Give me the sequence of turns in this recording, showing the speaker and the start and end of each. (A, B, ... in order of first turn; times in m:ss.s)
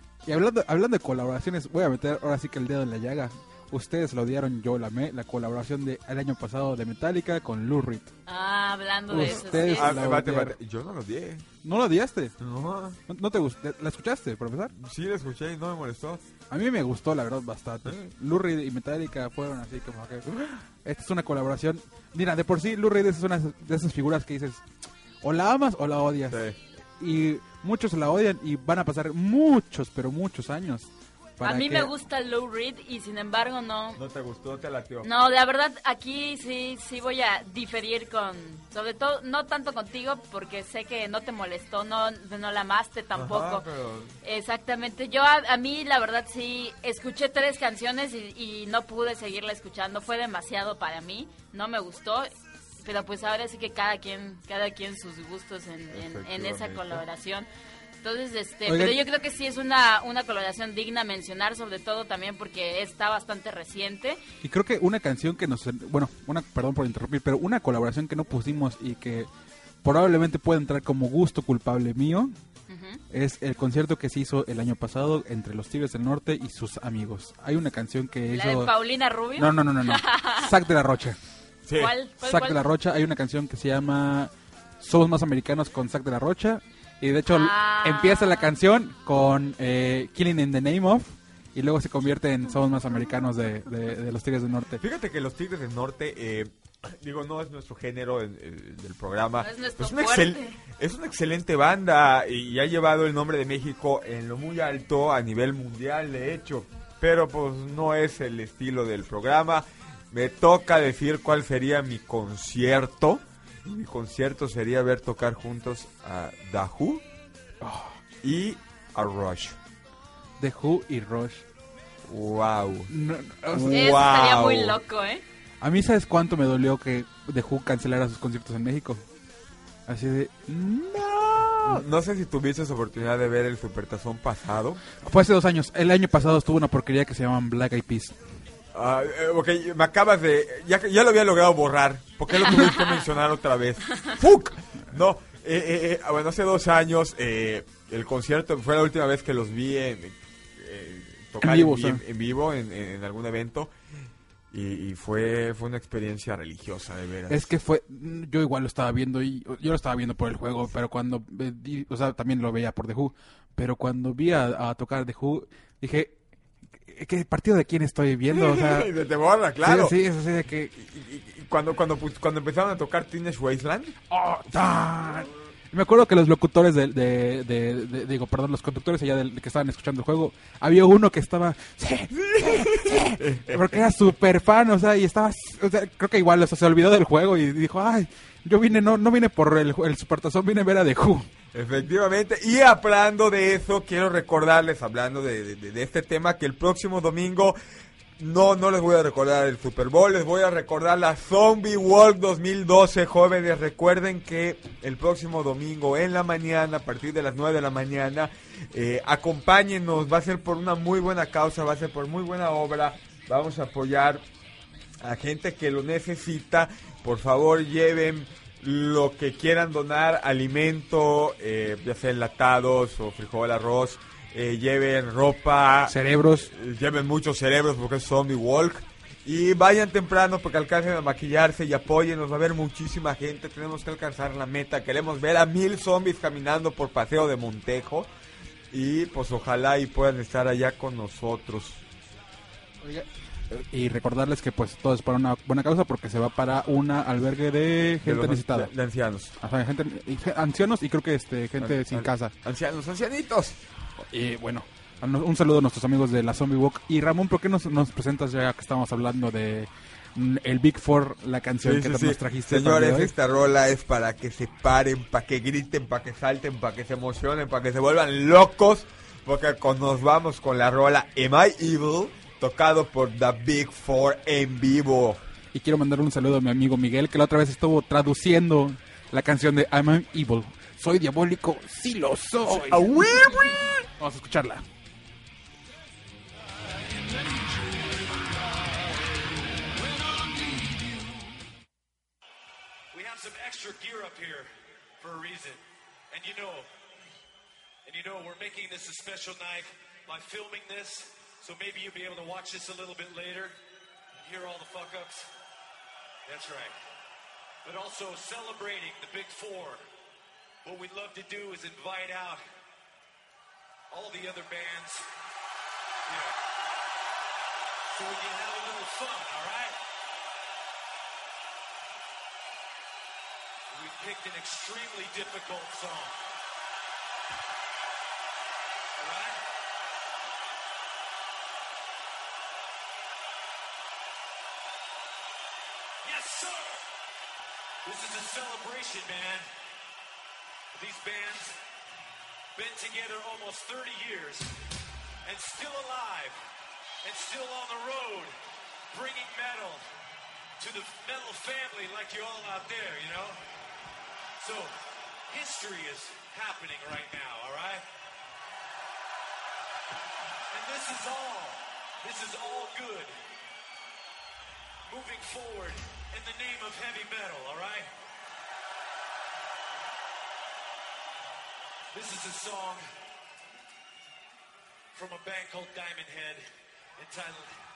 0:00.2-0:08.1 A
0:08.3-0:10.0 B
0:09.1-0:10.5 A
0:09.7-0:11.5 C
0:11.6-0:12.3 A
0:12.4-0:13.0 C
0:13.1-0:14.7 A
0:14.7-0:16.2 C
0:16.5-0:24.6 A
0:25.2-0:26.4 A
0:26.3-0:26.6 C
0:27.0-0:31.9 A
0:31.4-0:34.0 B
0:33.9-0:35.1 C
0:35.0-0:43.7 B
0:43.1-0:44.1 C
0:44.2-0:52.3 B
0:52.8-0:57.5 B
0:55.9-0:57.0 C
0:58.0-1:04.2 B
0:58.6-0:59.0 A
1:04.4-1:09.3 A
1:09.8-1:12.3 A
1:12.7-1:13.0 B
1:13.1-1:18.7 A
1:18.3-1:20.5 B
1:19.4-1:21.2 A
1:21.6-1:21.9 C
1:21.8-1:22.6 B
1:22.2-1:34.8 A
1:27.3-1:28.5 B
1:34.8-1:57.0 C
1:39.4-1:40.6 B
1:57.6-1:58.0 A
1:58.2-1:59.6 C
2:00.4-2:01.4 A
2:02.0-2:02.9 C
2:02.9-2:03.8 A
2:03.5-2:04.8 C
2:03.7-2:05.2 B
2:05.6-2:09.0 A
2:09.9-2:11.8 A
2:11.6-2:14.8 C
2:15.0-2:18.2 A
2:18.7-2:33.7 C
2:31.4-2:32.0 A
2:34.5-2:37.5 C
2:37.3-2:46.2 A
2:46.8-2:48.9 A
2:48.3-2:50.0 C
2:49.6-2:50.7 A
2:50.8-2:54.0 C
2:54.1-3:11.3 A
3:02.2-3:03.8 C
3:11.5-3:17.6 C
3:18.2-3:34.2 C
3:35.0-3:58.1 C
3:45.8-3:46.5 A
3:58.7-4:01.8 C
4:02.8-4:08.7 A
4:08.0-4:09.3 C
4:09.4-4:12.3 A
4:11.6-4:13.6 C
4:14.1-4:23.1 A
4:21.6-4:35.2 C
4:35.5-4:43.4 A
4:42.5-4:43.7 C
4:44.0-4:44.6 A
4:52.9-4:56.7 D
4:57.8-5:03.6 D
5:04.2-5:05.3 D
5:06.2-5:06.8 D
5:07.6-5:09.8 D
5:10.6-5:12.4 D
5:13.9-5:15.0 D
5:16.1-5:16.3 D
5:17.9-5:19.8 D
5:23.7-5:26.2 D
5:29.0-5:29.4 D
5:36.0-5:36.8 D
5:37.8-5:39.5 D
5:40.8-5:41.6 D
5:42.5-5:44.5 D
5:45.2-5:46.4 D
5:47.0-5:48.3 D
5:48.9-5:49.8 D
5:50.6-5:53.4 D
5:54.4-5:57.8 D
6:00.5-6:03.1 D
6:04.9-6:07.9 D
6:11.9-6:12.9 D
6:14.9-6:17.5 D